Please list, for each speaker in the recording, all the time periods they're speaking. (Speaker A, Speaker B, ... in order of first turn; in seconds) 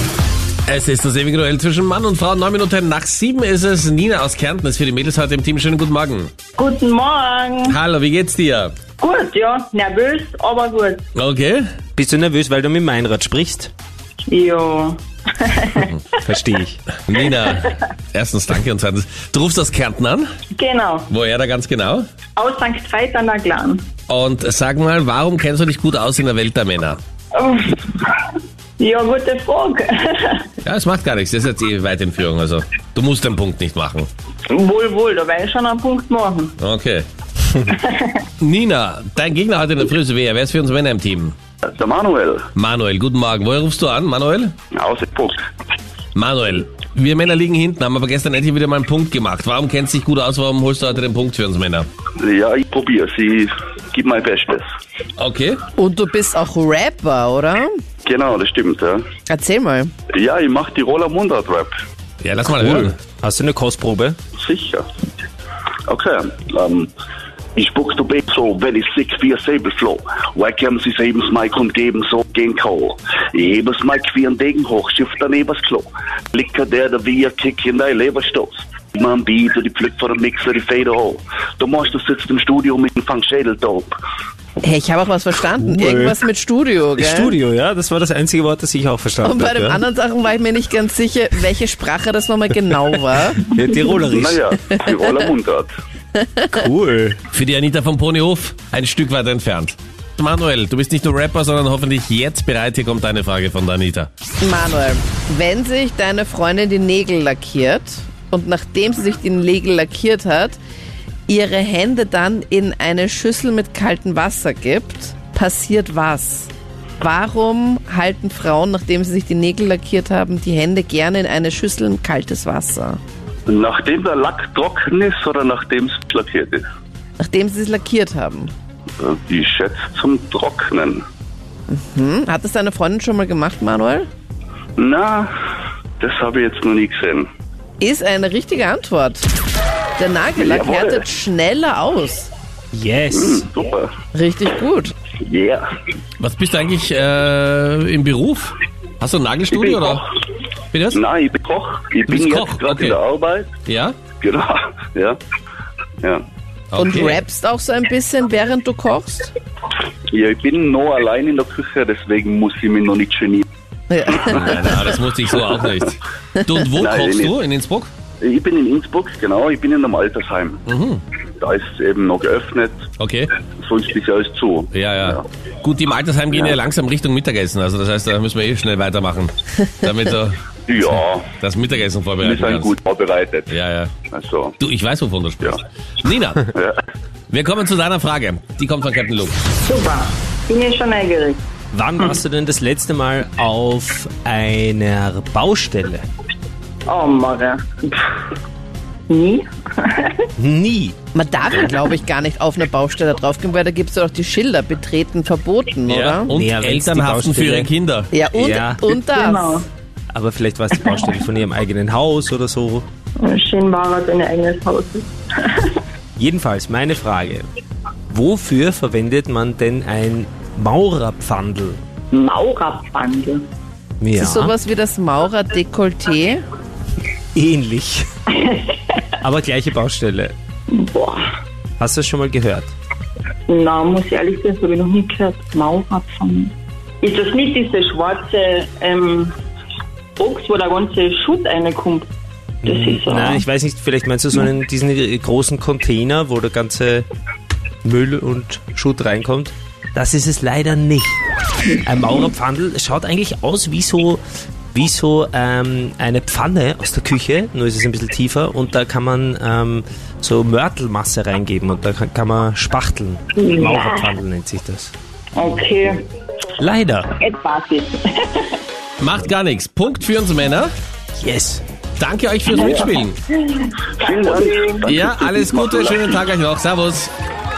Speaker A: 0.7-6.3, 7.7-8.8, 11.2-11.7, 17.1-20.3, 21.1-22.1, 24.1-27.0, 30.6-34.1, 36.6-37.1, 38.4-41.4, 42.5-44.5, 46.1-51.9, 55.2-55.6, 62.2-63.0, 97.3-104.1, 146.2-150.1, 150.7-151.0, 152.1-153.0, 153.7-153.9, 156.7-157.2, 164.3-167.9, 170.7-171.0, 173.0-173.3, 174.7-180.4, 181.4-182.8, 183.5-183.9, 184.6-186.4, 187.3-189.4, 205.9-208.1, 269.0-270.7, 272.0-273.2, 274.9-277.1
Speaker B: 6.6-7.8, 9.0-11.0, 14.3-15.9, 20.6-21.1, 22.4-23.9, 27.3-28.2, 28.8-30.5, 34.5-36.6, 37.7-38.2, 189.6-191.4, 196.9-198.3, 199.1-200.3, 208.9-209.7, 213.2-215.8, 222.1-223.5, 228.3-229.0, 230.7-231.3, 233.5-239.3, 240.2-242.1, 242.6-243.4, 263.4-264.1, 265.4-266.1, 267.1-268.6, 272.5-274.9
Speaker C: 12.0-13.7, 16.2-16.8, 62.6-64.2, 85.6-86.2, 87.0-89.8, 93.4-94.4, 96.5-97.2, 142.7-143.5, 191.7-196.1, 200.4-201.0, 206.3-207.7, 208.3-208.8, 210.1-212.9, 216.2-217.5, 218.1-221.8, 224.0-224.6, 227.3-228.1, 229.2-230.3, 231.8-232.7, 242.6-247.1, 247.8-251.2, 251.9-254.2, 254.7-264.9, 266.6-267.1, 271.2-271.6
Speaker D: 41.6-42.5, 44.7-45.4, 52.2-54.7, 58.0-59.0, 60.1-61.7, 64.4-64.9, 65.9-66.9, 67.6-84.0, 94.0-95.7, 123.5-126.6, 129.0-131.0, 134.8-135.3, 136.0-137.3, 140.4-141.0, 143.1-143.9, 145.2-145.7, 149.5-150.0, 150.9-153.5, 154.2-155.2, 160.1-163.4, 164.1-164.7, 166.8-167.4, 168.2-170.6, 171.4-172.8, 173.6-175.2, 180.7-181.3, 182.2-183.5, 184.1-184.6, 186.5-186.8, 274.0-276.2
Speaker E: 55.8-57.8, 59.3-59.9, 84.6-87.4, 89.2-93.4, 96.2-96.5, 104.4-110.6, 111.3-123.0, 127.2-128.5, 131.7-134.1, 137.8-139.3, 140.0-142.3, 144.1-144.9, 156.8-159.3, 163.9-165.0, 201.1-206.3, 208.1-209.6, 224.2-226.4